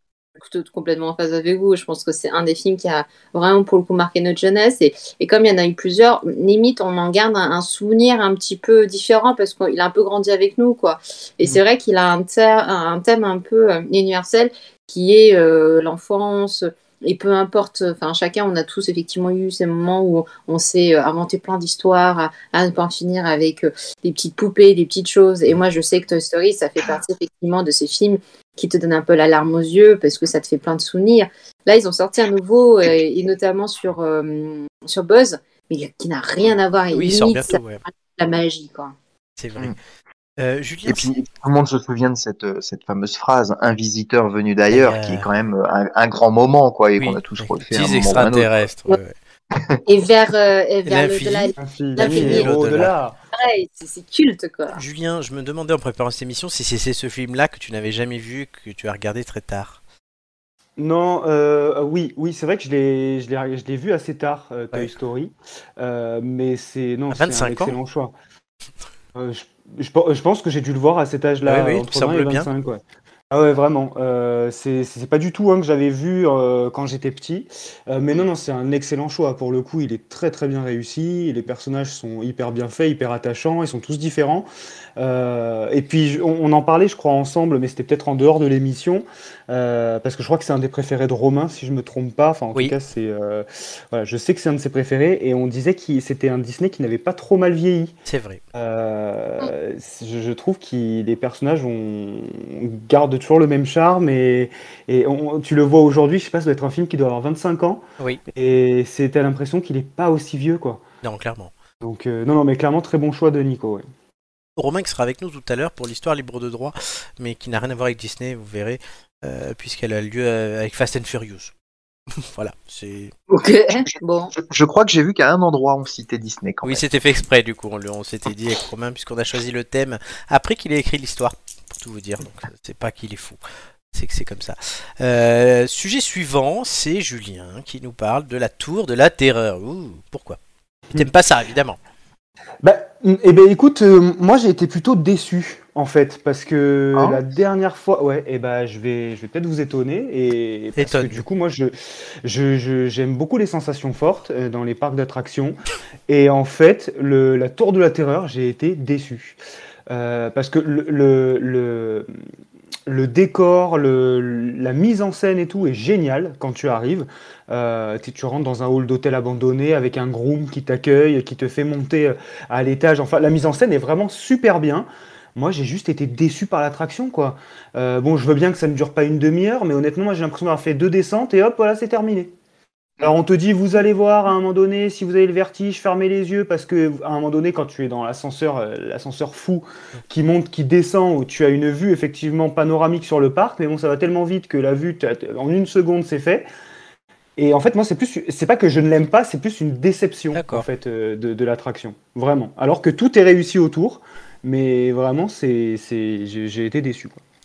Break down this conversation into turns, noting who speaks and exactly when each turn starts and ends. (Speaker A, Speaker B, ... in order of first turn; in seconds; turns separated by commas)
Speaker A: 0.4-38.9, Speaker B: 36.9-37.8, Speaker B: 39.4-39.8, Speaker B: 40.4-41.1, Speaker C: 40.9-48.5, Speaker B: 44.7-45.3, Speaker B: 47.0-49.1, Speaker C: 49.5-49.8, Speaker A: 49.9-52.5, Speaker B: 50.9-52.9, Speaker D: 51.6-53.1, Speaker A: 53.3-54.8, Speaker B: 54.7-59.8, Speaker D: 60.8-68.1, Speaker B: 67.1-67.8, Speaker D: 69.1-72.8, Speaker B: 71.4-72.5, Speaker D: 73.3-97.9, Speaker B: 98.0-98.4, Speaker D: 98.5-107.8, Speaker D: 108.3-110.8, Speaker B: 111.0-111.5, Speaker D: 111.8-113.8, Speaker B: 114.6-121.5, Speaker B: 122.2-123.1, Speaker A: 123.3-124.3, Speaker C: 123.8-126.8, Speaker B: 126.6-133.4, Speaker B: 133.9-140.4, Speaker B: 140.9-141.8, Speaker D: 142.6-151.7, Speaker C: 146.9-147.2, Speaker B: 150.8-151.2, Speaker D: 152.2-155.6, Speaker D: 156.1-159.4, Speaker D: 159.9-162.1, Speaker D: 162.9-182.3, Speaker D: 183.0-196.5, Speaker D: 197.4-207.2, Speaker B: 200.3-200.6